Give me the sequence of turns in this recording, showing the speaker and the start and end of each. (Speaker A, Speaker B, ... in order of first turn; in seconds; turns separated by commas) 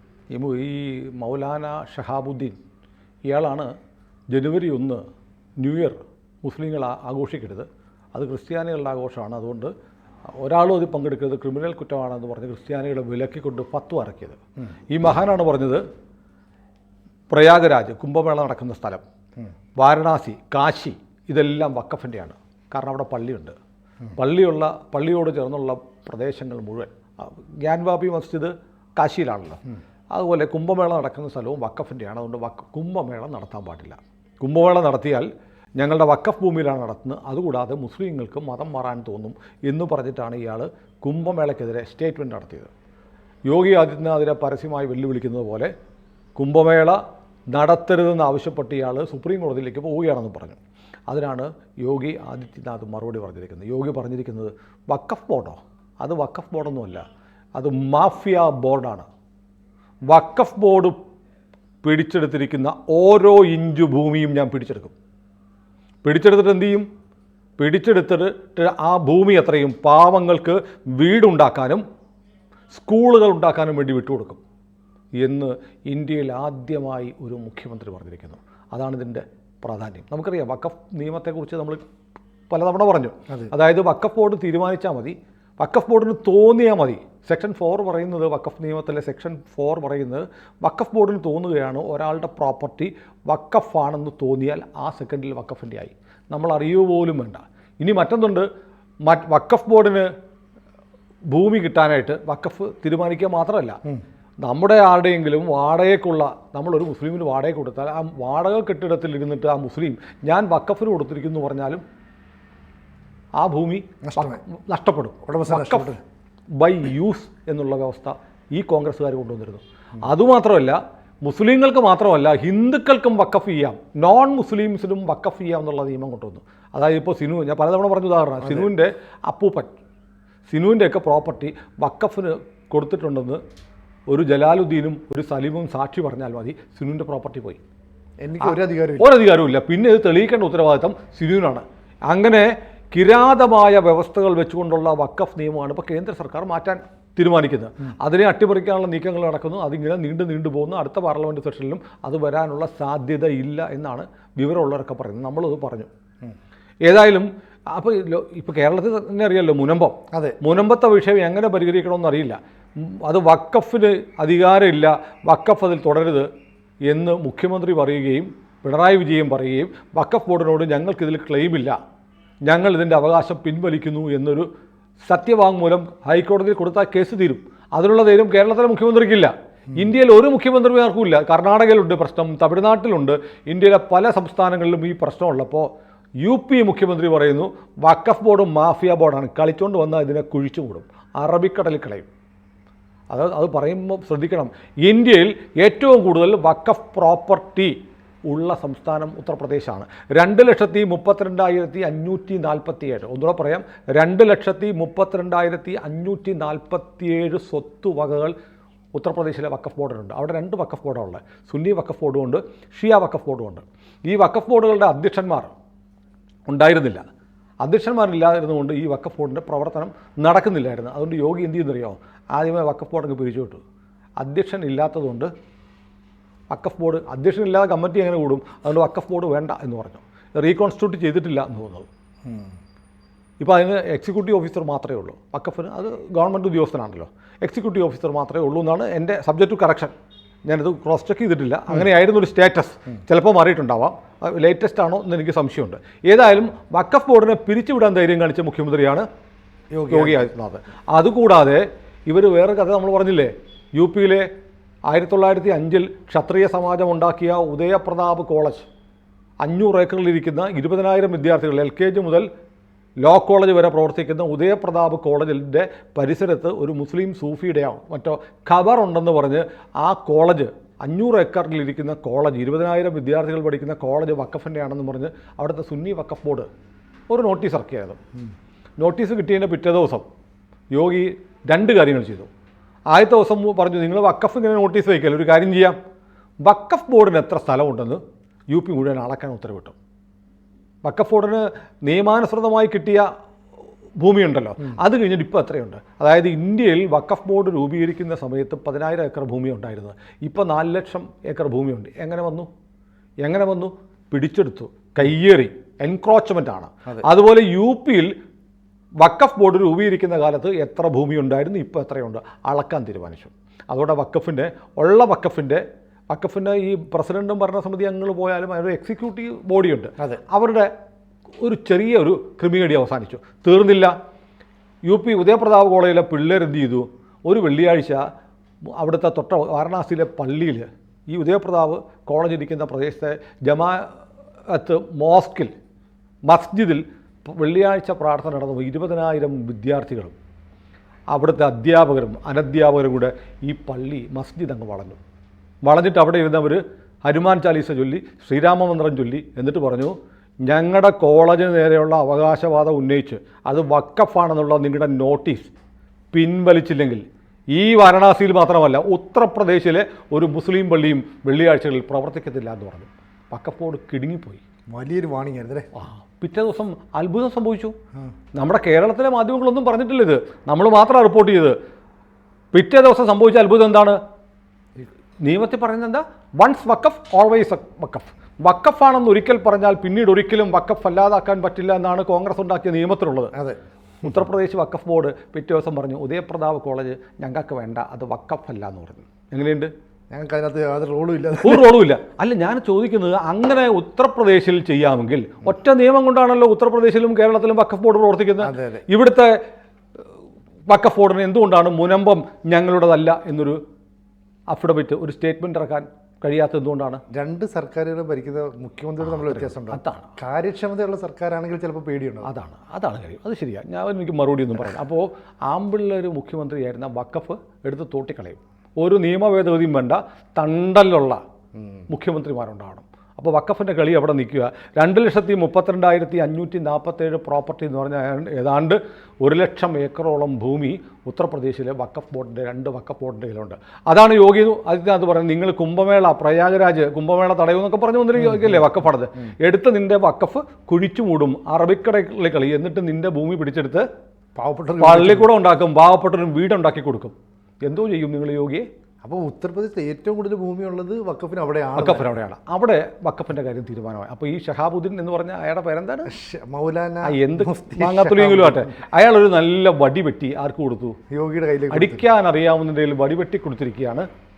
Speaker A: 0.3-2.6, Speaker A: 3.3-3.7, Speaker A: 4.3-5.0, Speaker A: 5.6-9.7, Speaker A: 10.3-14.4, Speaker A: 14.9-15.8, Speaker A: 17.3-19.0, Speaker A: 19.8-23.5, Speaker A: 24.1-29.6, Speaker A: 30.1-42.7, Speaker A: 43.5-45.7, Speaker A: 46.4-47.0, Speaker A: 47.5-57.0, Speaker A: 57.5-59.1, Speaker A: 60.1-61.0, Speaker A: 61.8-64.9, Speaker A: 66.0-66.8, Speaker A: 67.6-71.8, Speaker A: 72.7-74.4, Speaker A: 75.2-81.8, Speaker A: 82.5-98.5, Speaker A: 99.0-100.1, Speaker A: 101.3-103.8, Speaker A: 104.4-111.8, Speaker A: 113.4-115.9, Speaker B: 114.0-114.4, Speaker B: 115.3-116.0, Speaker A: 116.6-129.7, Speaker A: 130.5-133.4, Speaker A: 134.1-137.6, Speaker B: 138.2-139.1, Speaker A: 138.4-155.9, Speaker A: 156.8-166.3, Speaker A: 166.9-171.8, Speaker A: 172.4-174.5, Speaker A: 175.0-185.7, Speaker A: 186.2-192.1, Speaker A: 193.1-197.7, Speaker A: 198.3-208.3, Speaker A: 208.9-215.5, Speaker A: 216.5-217.0, Speaker A: 217.6-223.6, Speaker A: 224.2-225.3, Speaker A: 226.5-231.9, Speaker A: 233.4-239.9, Speaker A: 240.5-249.1, Speaker B: 249.7-250.2, Speaker A: 249.9-254.3, Speaker A: 254.9-258.7, Speaker A: 259.4-262.3, Speaker A: 263.0-276.5, Speaker A: 277.1-278.0, Speaker A: 278.8-280.0, Speaker A: 280.7-282.3, Speaker A: 282.9-285.8, Speaker A: 286.4-288.0, Speaker A: 288.5-289.7, Speaker A: 290.8-293.1, Speaker A: 294.0-302.5, Speaker A: 303.2-308.1, Speaker A: 309.0-320.7, Speaker A: 321.4-323.9, Speaker A: 324.8-328.0, Speaker A: 328.8-333.9, Speaker A: 334.5-335.5, Speaker A: 336.3-340.1, Speaker A: 341.1-345.0, Speaker A: 345.6-355.5, Speaker A: 356.1-364.4, Speaker B: 364.7-365.7, Speaker A: 365.7-367.7, Speaker A: 368.3-371.6, Speaker A: 372.5-374.0, Speaker A: 375.2-383.3, Speaker A: 384.0-389.7, Speaker B: 390.1-391.7, Speaker A: 391.4-399.4, Speaker B: 398.4-398.8, Speaker A: 400.7-403.6, Speaker A: 404.5-407.0, Speaker B: 407.1-412.3, Speaker A: 409.0-410.1, Speaker A: 412.2-421.2, Speaker A: 421.9-443.9, Speaker B: 444.4-445.3, Speaker A: 444.8-448.7, Speaker B: 449.0-452.1, Speaker A: 451.8-456.1, Speaker B: 456.1-458.6, Speaker A: 457.0-460.9, Speaker B: 461.1-462.0, Speaker A: 461.7-464.1